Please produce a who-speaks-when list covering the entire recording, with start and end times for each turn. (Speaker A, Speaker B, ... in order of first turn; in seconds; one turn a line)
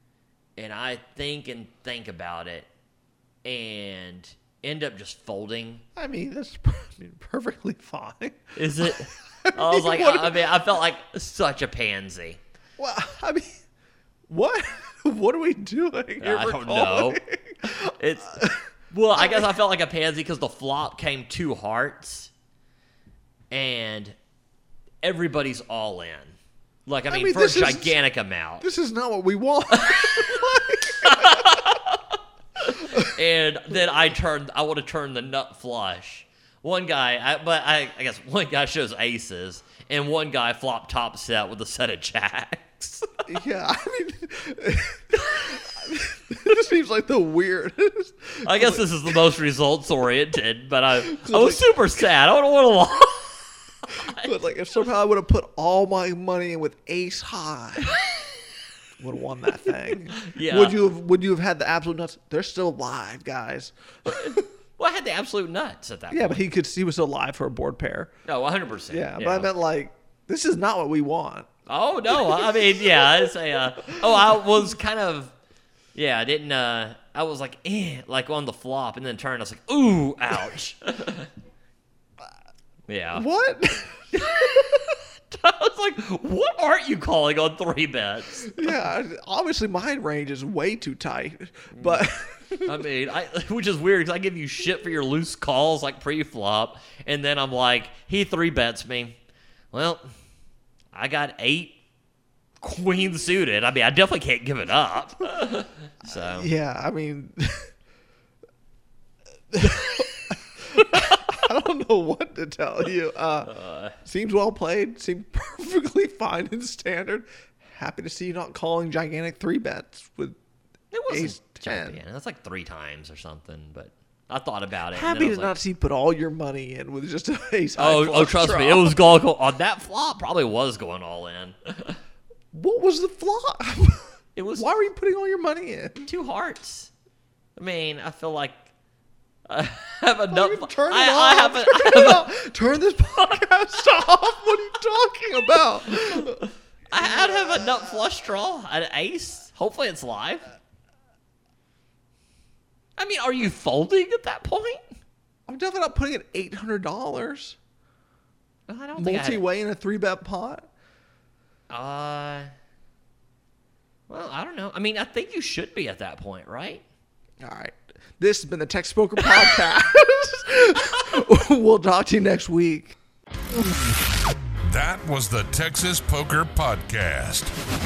Speaker A: 0.6-2.7
Speaker A: 3.5-5.8
Speaker B: 6.0-10.5
Speaker A: 8.6-12.4
Speaker B: 12.8-13.6
Speaker B: 14.3-19.5
Speaker A: 16.2-22.3
Speaker A: 23.5-24.2
Speaker A: 25.0-28.7
Speaker B: 27.1-28.0
Speaker B: 28.6-31.8
Speaker A: 29.7-43.2
Speaker B: 32.7-33.1
Speaker B: 43.3-49.2
Speaker A: 48.4-54.3
Speaker B: 51.1-52.0
Speaker B: 53.9-58.0
Speaker B: 59.0-64.4
Speaker A: 60.1-60.8
Speaker A: 64.1-66.4
Speaker B: 66.1-68.1
Speaker A: 68.3-69.5
Speaker B: 68.9-71.5
Speaker A: 71.7-75.3
Speaker B: 72.1-74.4
Speaker A: 76.0-81.3
Speaker A: 82.9-83.2
Speaker B: 83.1-84.6
Speaker A: 84.1-88.8
Speaker B: 88.5-92.8
Speaker A: 91.7-99.2
Speaker A: 99.7-100.1
Speaker A: 100.9-101.8
Speaker A: 102.6-106.5
Speaker B: 106.1-107.7
Speaker B: 109.5-120.4
Speaker A: 113.5-114.0
Speaker A: 120.9-125.6
Speaker B: 121.1-122.0
Speaker B: 124.9-129.0
Speaker A: 127.8-132.0
Speaker B: 132.5-136.1
Speaker A: 134.3-134.7
Speaker A: 136.0-136.9
Speaker A: 137.6-138.7
Speaker A: 139.5-142.3
Speaker B: 140.3-146.5
Speaker A: 146.9-150.5
Speaker B: 147.0-147.3
Speaker A: 153.0-154.9
Speaker B: 155.5-157.6
Speaker A: 158.7-159.4
Speaker B: 159.0-160.7
Speaker A: 161.7-162.5
Speaker A: 164.1-166.8
Speaker B: 167.4-173.0
Speaker C: 174.7-177.5